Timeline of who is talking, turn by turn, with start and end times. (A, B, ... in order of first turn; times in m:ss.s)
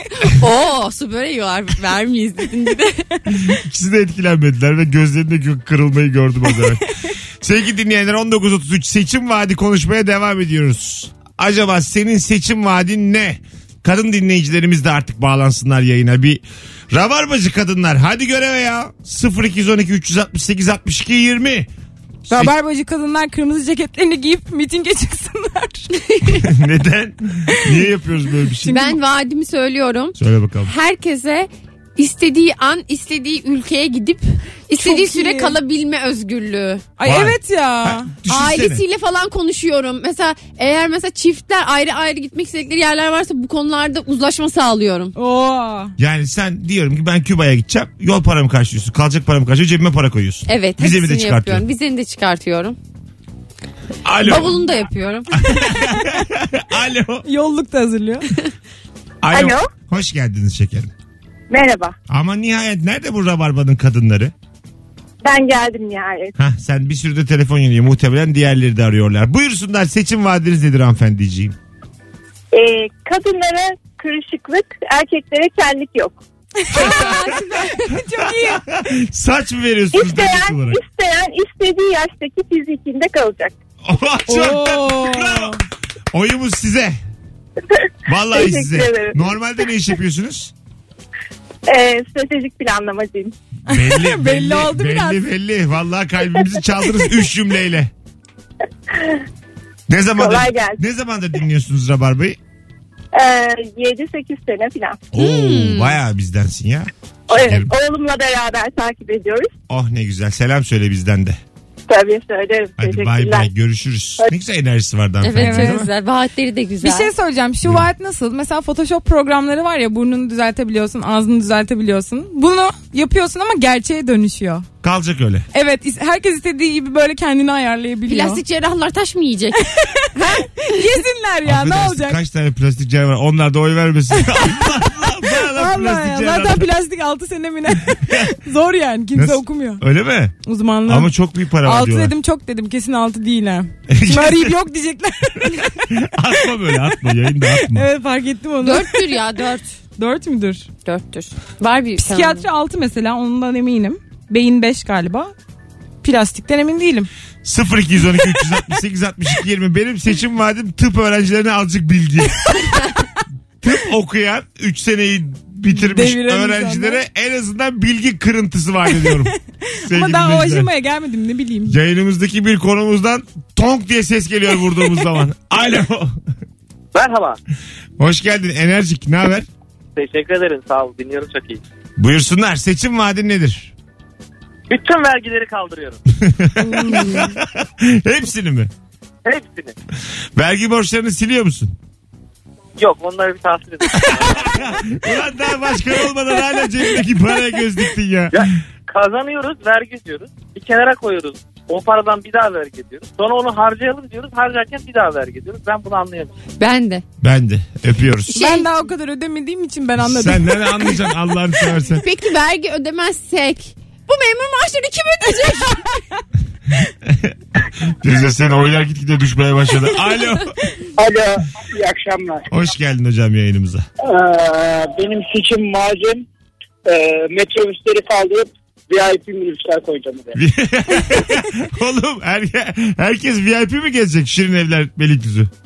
0:00.3-0:03.0 A
0:03.3-0:06.8 B
0:07.4-0:21.7 B
0:22.2-0:22.5 B
0:22.3-0:25.9 C
0:26.1-0:26.4 A
0:26.3-0:28.8 B
0:28.6-0:29.0 C
0:28.7-0:36.8 A
0:30.2-0:30.7 B
0:34.8-0:35.6 C
0:37.0-0:38.1 C
0:37.0-0:38.8 B
0:38.3-0:45.1 A
0:45.2-0:45.9 C
0:46.0-0:51.6 B
0:50.5-0:52.8 A
0:54.0-0:54.6 B
0:54.2-0:55.4 A
0:55.4-0:57.2 B
0:57.2-0:58.2 C
0:59.2-1:00.9 B
0:59.3-0:59.7 D
1:01.5-1:01.9 D
1:02.1-1:04.3 B
1:05.2-1:06.3 D
1:06.4-1:11.6 B
1:12.5-1:16.2 D
1:16.6-1:18.6 C
1:16.7-1:17.2 B
1:16.8-1:17.6 A
1:18.2-1:20.8 B
1:19.9-1:23.5 D
1:23.8-1:25.6 B
1:24.3-1:25.6 C
1:26.1-1:27.0 B
1:28.1-1:30.5 B
1:28.3-1:29.2 D
1:31.7-1:33.3 D
1:33.7-1:37.9 B
1:33.7-1:35.2 C
1:39.9-1:42.4 B
1:40.2-1:40.8 D
1:43.1-1:45.0 D
1:45.1-1:47.7 B
1:45.1-1:46.0 A
1:47.3-1:49.5 D
1:49.7-1:51.4 B
1:51.9-1:53.5 D
1:52.8-1:55.9 B
1:55.2-1:57.1 A
1:55.4-1:55.8 C
1:56.8-2:04.6 C
2:04.8-2:05.4 B
2:05.5-2:08.4 C
2:08.1-2:09.6 A
2:09.9-2:12.2 C
2:11.4-2:16.7 B
2:15.3-2:19.8 C
2:17.9-2:18.2 B
2:19.1-2:20.3 B
2:20.4-2:25.8 C
2:20.8-2:22.1 B
2:23.9-2:24.6 B
2:25.4-2:27.9 B
2:27.7-2:29.1 C
2:28.6-2:29.7 A
2:30.0-2:30.7 C
2:30.8-2:32.4 A
2:32.0-2:35.3 C
2:36.0-2:37.1 C
2:37.4-2:42.6 B
2:43.6-2:49.3 B
2:45.7-2:47.0 C
2:49.7-2:51.8 C
2:49.8-2:50.7 B
2:51.7-2:56.2 B
2:56.9-2:57.4 E
2:58.0-2:59.5 B
3:00.0-3:01.6 E
3:02.0-3:03.7 B
3:04.7-3:06.0 E
3:06.2-3:08.7 B
3:06.8-3:07.1 A
3:09.2-3:09.7 E
3:10.4-3:11.7 B
3:12.8-3:14.8 E
3:13.9-3:18.5 B
3:18.3-3:26.3 E
3:26.6-3:27.0 A
3:27.2-3:28.3 B
3:28.3-3:28.7 A
3:28.3-3:30.9 C
3:30.0-3:32.0 B
3:32.0-3:36.0 A
3:37.0-3:40.6 B
3:41.0-3:42.4 F
3:42.5-3:43.8 B
3:44.0-3:46.2 F
3:46.8-3:50.4 F
3:50.3-3:55.5 B